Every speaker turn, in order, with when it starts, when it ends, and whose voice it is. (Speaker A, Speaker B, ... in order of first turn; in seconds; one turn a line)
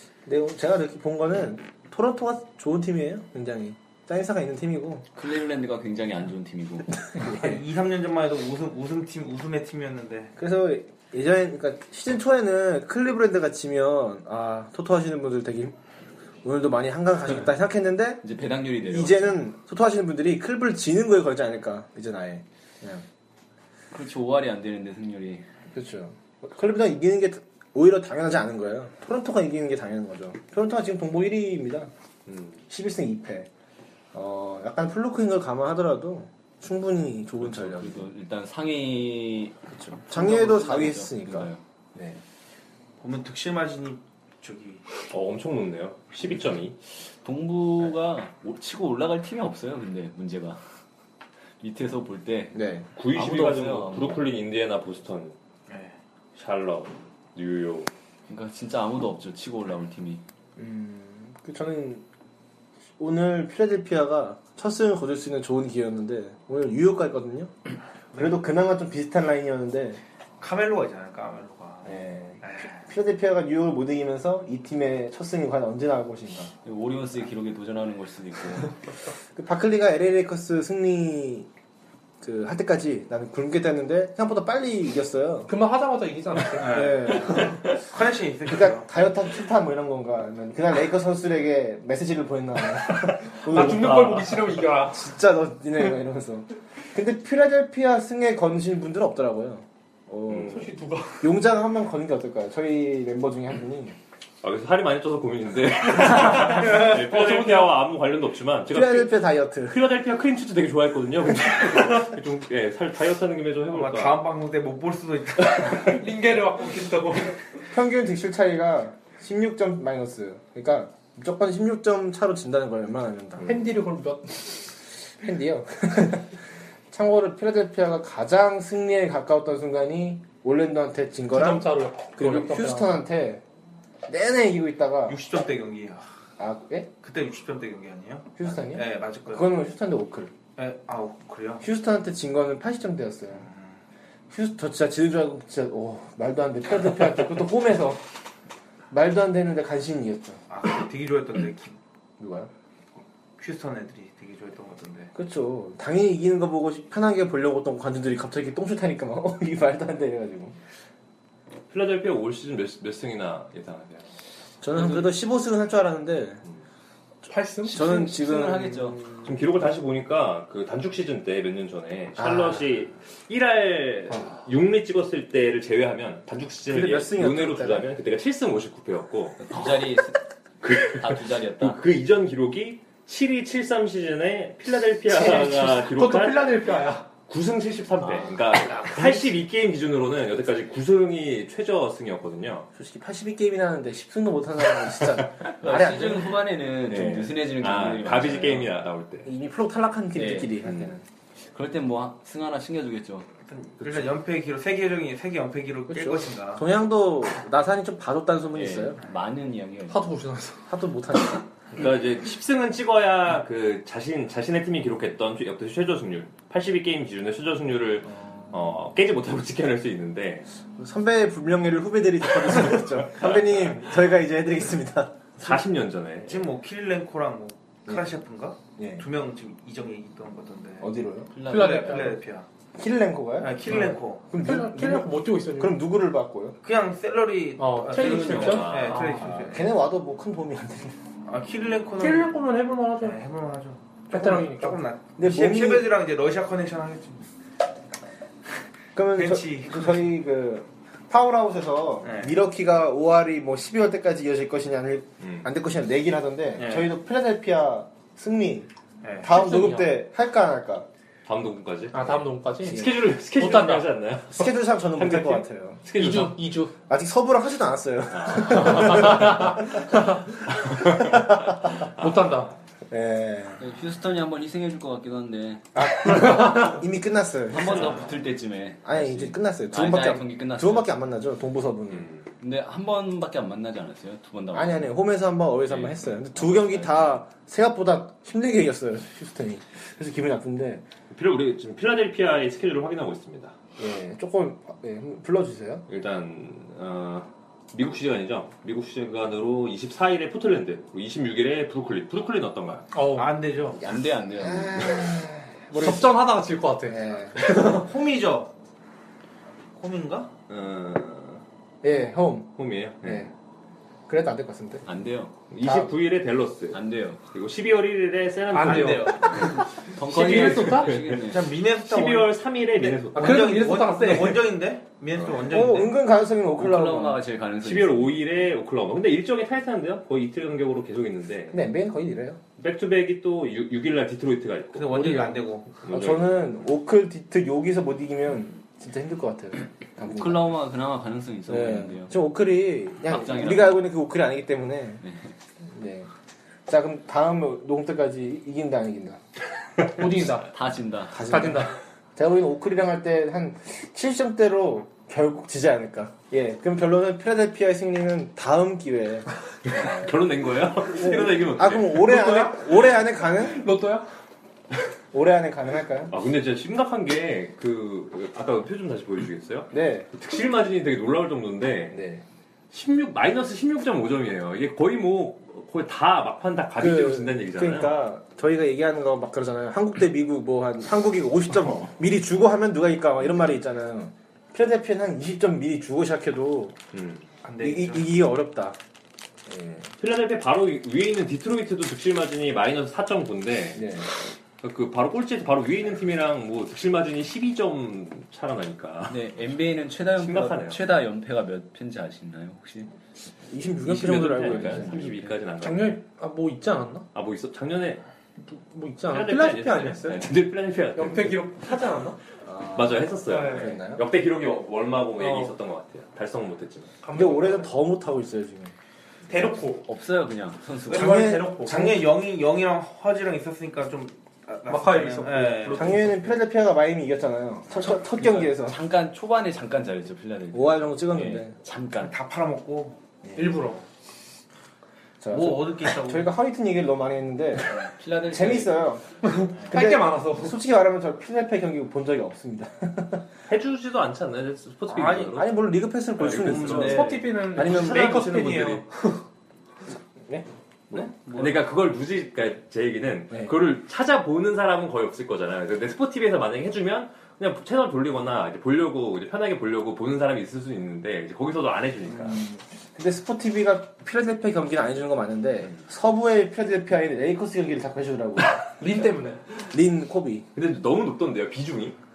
Speaker A: 0.2-5.1
Speaker B: 5.2-7.0
Speaker A: 6.9-7.6
Speaker C: 7.2-10.3
Speaker A: 10.4-15.8
Speaker A: 16.4-18.2
Speaker B: 18.2-19.4
Speaker A: 18.9-23.1
Speaker B: 23.9-25.5
Speaker A: 25.7-31.9
Speaker D: 32.3-32.6
Speaker A: 32.7-33.5
Speaker A: 34.1-38.1
Speaker B: 37.4-41.6
Speaker A: 39.7-42.2
Speaker C: 43.0-44.9
Speaker D: 45.1-46.8
Speaker B: 47.2-50.6
Speaker B: 51.6-54.2
Speaker A: 52.5-52.9
Speaker D: 53.0-55.4
Speaker C: 55.7-56.0
Speaker D: 56.4-57.9
Speaker B: 58.3-60.2
Speaker A: 60.6-62.0
Speaker A: 63.0-67.5
Speaker A: 68.1-70.0
Speaker C: 70.4-72.8
Speaker A: 71.8-76.5
Speaker B: 76.7-78.7
Speaker A: 79.3-81.5
Speaker A: 82.2-85.5
Speaker E: 85.5-86.9
Speaker C: 86.5-88.9
Speaker A: 86.6-87.6
Speaker A: 88.5-94.1
Speaker E: 93.5-95.0
Speaker D: 93.5-94.4
Speaker A: 94.8-100.7
Speaker D: 100.3-100.6
Speaker E: 100.5-101.3
Speaker A: 101.2-104.0
Speaker D: 104.4-114.2
Speaker E: 106.3-107.8
Speaker A: 108.7-109.8
Speaker C: 113.7-116.0
Speaker E: 115.8-117.4
Speaker A: 117.7-123.5
Speaker E: 123.4-124.7
Speaker A: 125.2-133.4
Speaker E: 131.3-133.0
Speaker A: 134.1-135.2
Speaker C: 135.1-136.0
Speaker A: 136.4-136.9
Speaker C: 137.0-139.5
Speaker A: 138.4-140.3
Speaker C: 140.6-141.6
Speaker A: 141.6-143.5
Speaker C: 143.3-143.8
Speaker A: 144.3-148.0
Speaker A: 148.9-150.4
Speaker C: 150.5-151.8
Speaker A: 152.2-152.5
Speaker C: 153.4-155.1
Speaker A: 155.2-160.6
Speaker D: 161.7-164.1
Speaker A: 164.6-166.4
Speaker E: 167.3-167.9
Speaker B: 167.6-169.0
Speaker A: 167.7-169.3
Speaker D: 169.2-179.6
Speaker A: 172.2-172.7
Speaker A: 176.7-177.9
Speaker B: 179.4-180.2
Speaker D: 180.6-186.5
Speaker B: 180.8-181.8
Speaker E: 185.1-187.1
Speaker D: 187.2-192.7
Speaker B: 188.0-188.4
Speaker A: 192.8-196.4
Speaker B: 195.6-198.7
Speaker D: 196.9-199.3
Speaker A: 199.2-201.1
Speaker B: 200.2-200.6
Speaker D: 200.7-200.9
Speaker B: 201.5-203.3
Speaker C: 203.5-206.7
Speaker A: 203.8-204.1
Speaker A: 205.9-209.0
Speaker B: 208.5-210.1
Speaker E: 209.9-210.7
Speaker A: 210.7-211.5
Speaker D: 211.7-220.5
Speaker A: 218.1-218.6
Speaker A: 220.8-225.4
Speaker D: 225.4-226.5
Speaker C: 226.3-230.9
Speaker A: 228.8-229.1
Speaker A: 230.8-231.3
Speaker B: 231.3-232.1
Speaker E: 231.5-232.2
Speaker C: 231.5-232.5
Speaker A: 232.8-236.6
Speaker C: 233.4-234.3
Speaker E: 234.4-235.8
Speaker C: 236.6-239.7
Speaker E: 237.6-239.2
Speaker D: 237.9-239.0
Speaker A: 238.9-241.0
Speaker C: 241.2-242.4
Speaker E: 242.0-243.2
Speaker C: 243.0-247.3
Speaker E: 244.1-244.8
Speaker A: 245.2-245.9
Speaker A: 248.9-260.9
Speaker C: 249.2-250.1
Speaker C: 252.0-252.4
Speaker D: 255.2-255.5
Speaker C: 256.6-256.9
Speaker C: 259.0-259.3
Speaker E: 259.3-259.9
Speaker D: 261.3-266.5
Speaker E: 261.9-263.9
Speaker A: 264.3-265.8
Speaker E: 265.9-266.7
Speaker A: 266.9-271.9
Speaker D: 268.1-269.3
Speaker E: 268.8-269.4
Speaker E: 269.9-270.2
Speaker E: 272.0-272.5
Speaker A: 272.9-273.6
Speaker B: 273.6-275.7
Speaker A: 275.8-278.0
Speaker B: 277.5-280.9
Speaker A: 278.9-282.1
Speaker D: 281.9-282.3
Speaker B: 282.4-284.9
Speaker A: 284.5-290.9
Speaker B: 285.7-287.2
Speaker D: 291.1-293.6
Speaker A: 293.8-295.9
Speaker D: 295.9-302.9
Speaker E: 302.9-303.4
Speaker C: 303.1-303.8
Speaker B: 303.8-304.9
Speaker A: 304.4-306.2
Speaker E: 305.7-307.9
Speaker A: 306.9-307.4
Speaker C: 307.5-308.5
Speaker C: 309.8-310.3
Speaker D: 310.5-311.4
Speaker A: 311.8-313.3
Speaker D: 312.6-313.3
Speaker A: 314.1-314.9
Speaker B: 314.9-315.3
Speaker D: 315.5-321.2
Speaker A: 315.6-315.9
Speaker B: 316.7-317.2
Speaker E: 318.5-321.0
Speaker C: 318.6-319.7
Speaker B: 319.8-321.5
Speaker C: 321.2-326.0
Speaker D: 321.8-323.5
Speaker E: 323.1-324.5
Speaker D: 325.1-325.4
Speaker A: 325.5-327.2
Speaker B: 326.6-328.4
Speaker D: 327.6-331.6
Speaker A: 331.5-332.4
Speaker D: 332.6-335.2
Speaker C: 334.8-335.7
Speaker D: 335.8-336.5
Speaker A: 335.9-340.6
Speaker B: 340.1-342.1
Speaker A: 341.5-345.0
Speaker B: 343.1-343.9
Speaker B: 345.0-345.3
Speaker A: 345.6-346.1
Speaker A: 346.7-349.2
Speaker E: 349.9-350.5
Speaker B: 350.5-351.2
Speaker A: 351.1-360.1
Speaker E: 351.2-351.8
Speaker D: 359.6-362.0
Speaker A: 360.9-363.7
Speaker E: 362.0-362.7
Speaker E: 363.5-364.1
Speaker A: 365.1-366.1
Speaker D: 366.1-372.0
Speaker A: 369.7-370.1
Speaker A: 371.9-372.2
Speaker D: 372.7-378.0
Speaker A: 376.8-386.8
Speaker D: 386.9-387.3
Speaker C: 387.4-388.1
Speaker A: 387.6-388.8
Speaker A: 389.5-389.9
Speaker D: 390.0-399.3
Speaker A: 393.7-394.1
Speaker B: 399.1-402.9
Speaker D: 400.1-400.8
Speaker A: 403.5-405.0
Speaker D: 403.8-406.0
Speaker B: 404.5-405.4
Speaker E: 405.6-407.1
Speaker D: 407.1-408.0
Speaker E: 408.4-410.3
Speaker D: 409.1-411.7
Speaker E: 410.9-412.2
Speaker A: 412.4-414.0
Speaker D: 412.7-416.9
Speaker E: 413.3-413.8
Speaker E: 415.2-415.5
Speaker E: 417.0-417.7
Speaker A: 417.1-418.7
Speaker E: 419.3-419.9
Speaker B: 419.8-421.2
Speaker E: 420.9-422.0
Speaker C: 420.9-426.1
Speaker A: 420.9-421.9
Speaker E: 424.7-426.3
Speaker A: 425.7-428.8
Speaker B: 427.8-432.1
Speaker A: 430.5-431.6
Speaker C: 432.0-433.2
Speaker E: 433.4-433.8
Speaker A: 435.2-437.8
Speaker C: 435.3-436.3
Speaker B: 437.7-438.9
Speaker A: 438.3-439.2
Speaker E: 439.2-440.6
Speaker A: 439.7-443.2
Speaker D: 443.5-445.5
Speaker C: 444.9-445.4
Speaker A: 445.3-448.4
Speaker D: 446.2-448.8
Speaker C: 446.2-447.3
Speaker E: 446.8-449.2
Speaker A: 450.2-451.1
Speaker C: 451.3-451.6
Speaker D: 451.3-462.4
Speaker A: 462.1-468.7
Speaker E: 468.8-469.6
Speaker A: 469.7-470.5
Speaker D: 470.6-472.0